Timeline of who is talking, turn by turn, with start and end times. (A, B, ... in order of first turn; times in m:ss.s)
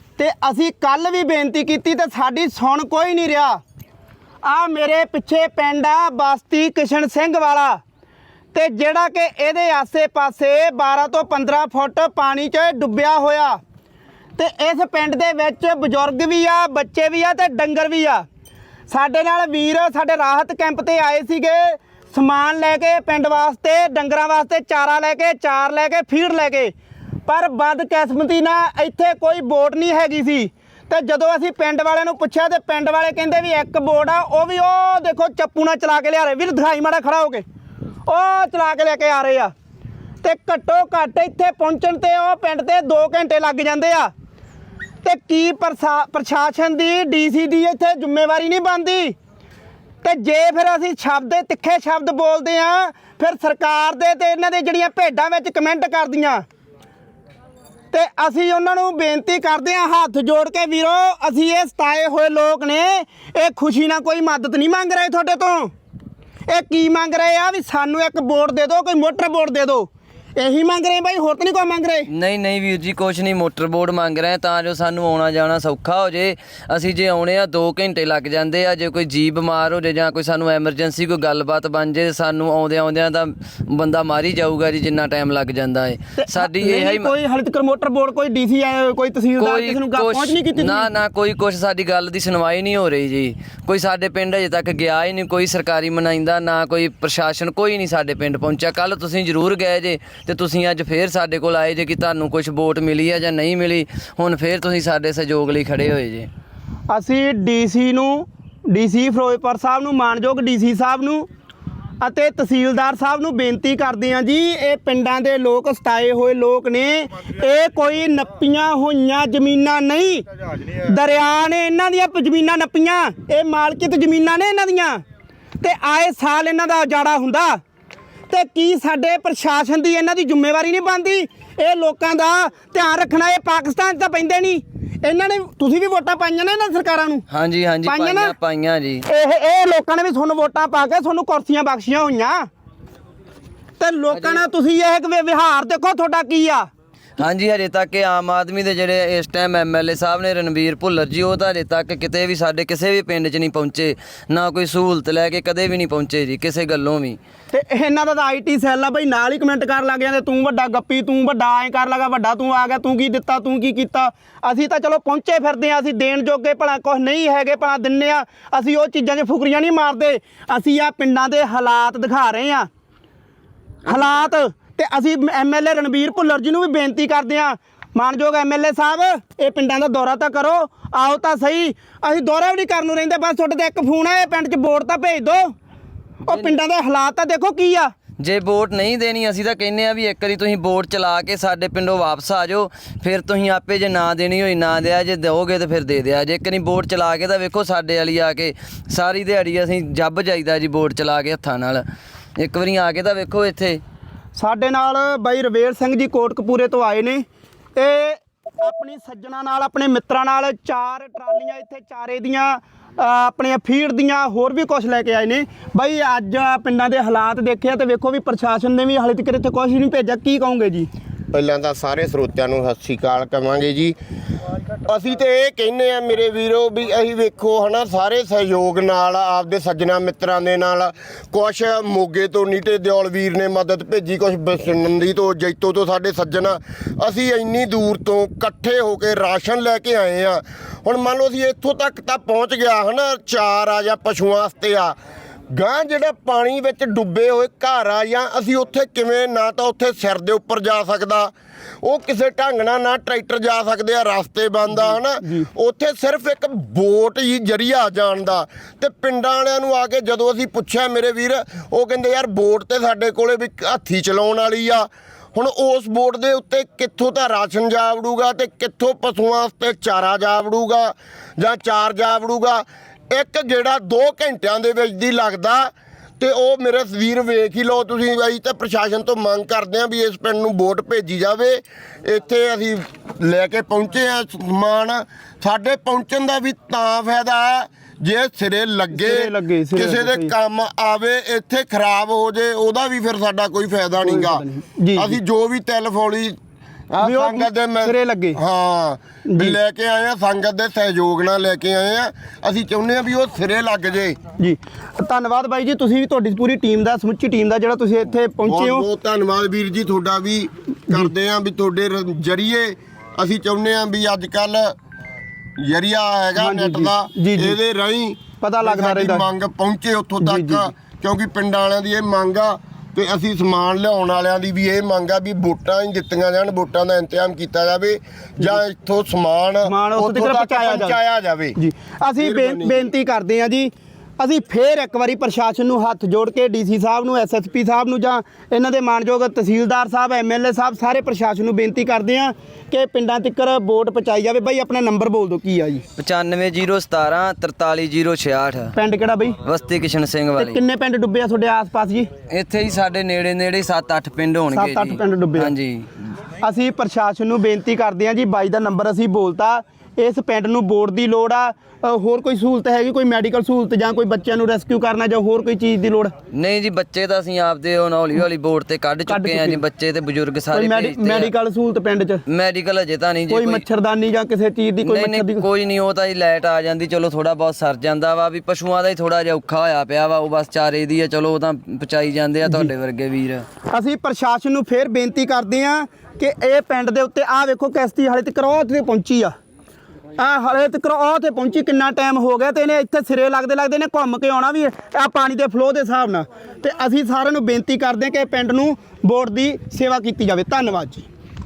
0:00.2-0:03.6 A
0:04.4-0:07.8 A
0:08.5-0:13.6 A
0:14.4-0:18.2 A
0:18.9-0:26.7 A
0:27.3-0:37.4 A
0:38.1-0:39.5 A
0:40.2-0:44.1 A
0:45.0-0:49.1 A
0:50.0-0:56.4 A
0:57.9-1:05.7 A
1:06.5-1:12.1 A
1:12.1-1:27.1 B
1:26.2-1:30.9 A
1:29.4-1:46.3 B
1:46.9-1:51.3 A
1:52.0-2:05.0 A
2:05.6-2:07.6 A
2:08.3-2:17.2 A
2:17.3-2:19.0 B
2:17.8-2:18.3 A
2:19.0-2:22.5 A
2:23.8-2:26.7 A
2:24.1-2:24.4 B
2:27.2-2:37.2 B
2:37.5-2:52.7 A
2:53.8-3:05.5 A
3:06.3-3:07.9 A
3:08.2-3:21.8 B
3:22.4-3:23.8 B
3:24.4-3:27.2 A
3:27.8-3:40.9 A
3:41.3-3:44.0 C
3:44.8-4:04.9 C
4:05.5-4:11.3 C
4:11.8-4:56.4 C
4:14.8-4:15.5 A
4:48.9-4:50.3 A
4:54.0-4:55.2 A
4:56.9-5:04.2 C
4:57.0-4:58.4 A
4:59.3-4:59.6 A
5:04.4-5:08.8 A
5:08.4-5:14.7 C
5:15.6-5:31.6 C
5:16.4-5:17.6 A
5:18.4-5:19.3 A
5:20.2-5:20.7 A
5:29.6-5:31.0 A
5:31.6-5:45.8 A
5:32.2-5:32.8 C
5:46.0-5:48.7 B
5:48.7-5:49.4 A
5:49.4-5:50.6 B
5:50.4-5:52.1 A
5:52.3-5:55.9 B
5:54.5-5:55.5 A
5:56.4-6:06.1 A
6:06.3-6:11.3 B
6:09.1-6:09.6 A
6:10.5-6:12.2 A
6:12.3-6:13.6 B
6:13.3-6:15.4 A
6:14.8-6:23.4 B
6:22.4-6:22.7 A
6:23.7-6:29.3 A
6:30.2-6:41.1 A